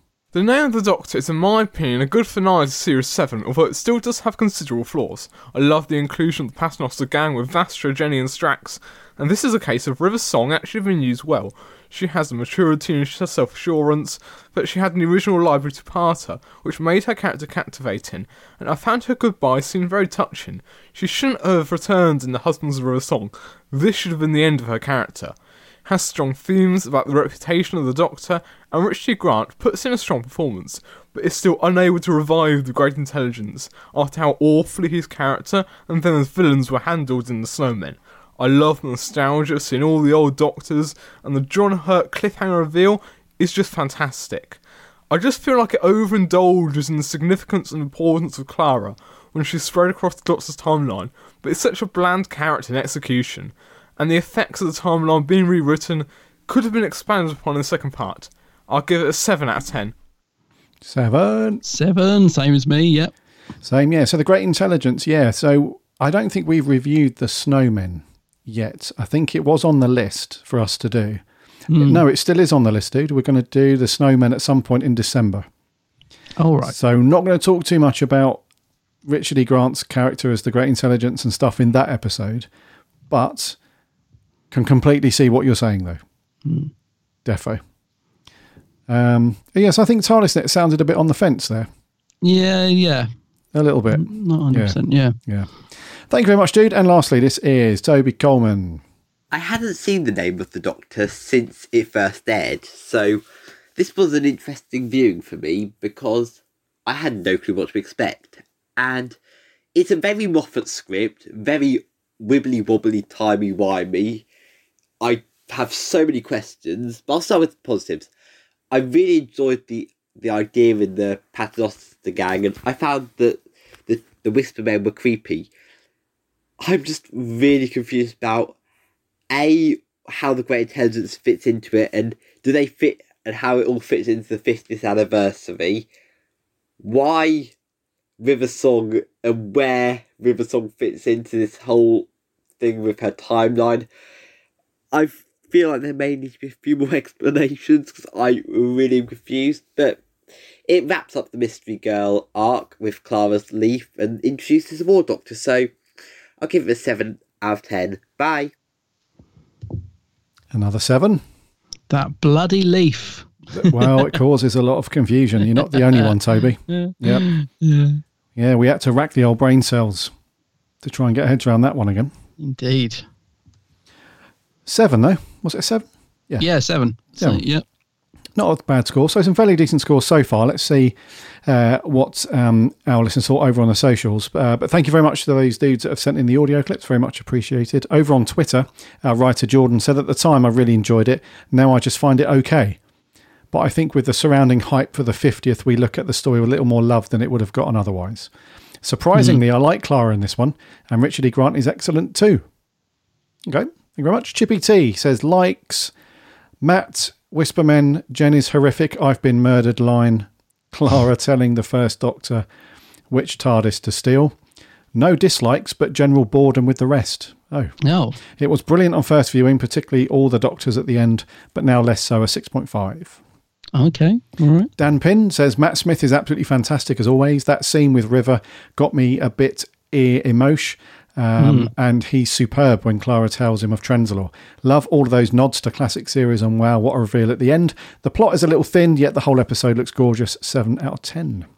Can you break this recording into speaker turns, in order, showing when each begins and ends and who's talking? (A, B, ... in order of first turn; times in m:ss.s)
0:00.3-0:44.6 A
0:45.1-0:59.9 A
1:00.8-1:01.6 B
1:01.6-1:03.1 C
1:03.6-1:11.2 B
1:11.7-1:12.0 C
1:11.8-1:15.5 B
1:16.4-1:16.8 C
1:16.6-1:18.4 B
1:19.0-1:22.5 B
1:23.1-1:23.6 B
1:24.5-1:26.0 B
1:26.4-1:26.7 C
1:27.2-1:27.6 B
1:28.9-1:31.7 B
1:32.2-1:33.1 C
1:33.5-1:35.5 B
1:33.9-1:35.2 C
1:36.1-1:38.8 B
1:39.3-1:43.2 D
1:43.8-1:49.2 D
1:49.8-1:54.2 D
1:55.0-1:58.1 D
1:58.7-2:05.5 D
2:06.6-2:08.5 D
2:09.3-2:15.9 D
2:16.8-2:17.5 D
2:18.2-2:22.1 D
2:22.6-2:23.9 D
2:24.9-2:30.0 D
2:30.7-2:35.7 D
2:36.4-2:38.5 D
2:40.5-2:41.2 B
2:41.9-2:43.9 C
2:43.5-2:47.3 B
2:45.8-2:46.2 C
2:46.7-2:48.0 C
2:48.4-2:50.1 B
2:50.8-2:52.1 B
2:52.4-2:53.1 C
2:54.7-2:56.5 B
2:56.4-2:57.6 C
2:57.2-2:57.4 B
2:58.4-3:12.8 B
3:13.5-3:18.3 B
3:18.8-3:22.4 B
3:23.5-3:25.9 B
3:26.6-3:32.5 B
3:33.1-3:34.4 B
3:34.9-3:43.2 B
3:37.8-3:38.2 C
3:43.7-3:44.7 C
3:44.8-4:01.5 B
3:51.4-3:51.7 C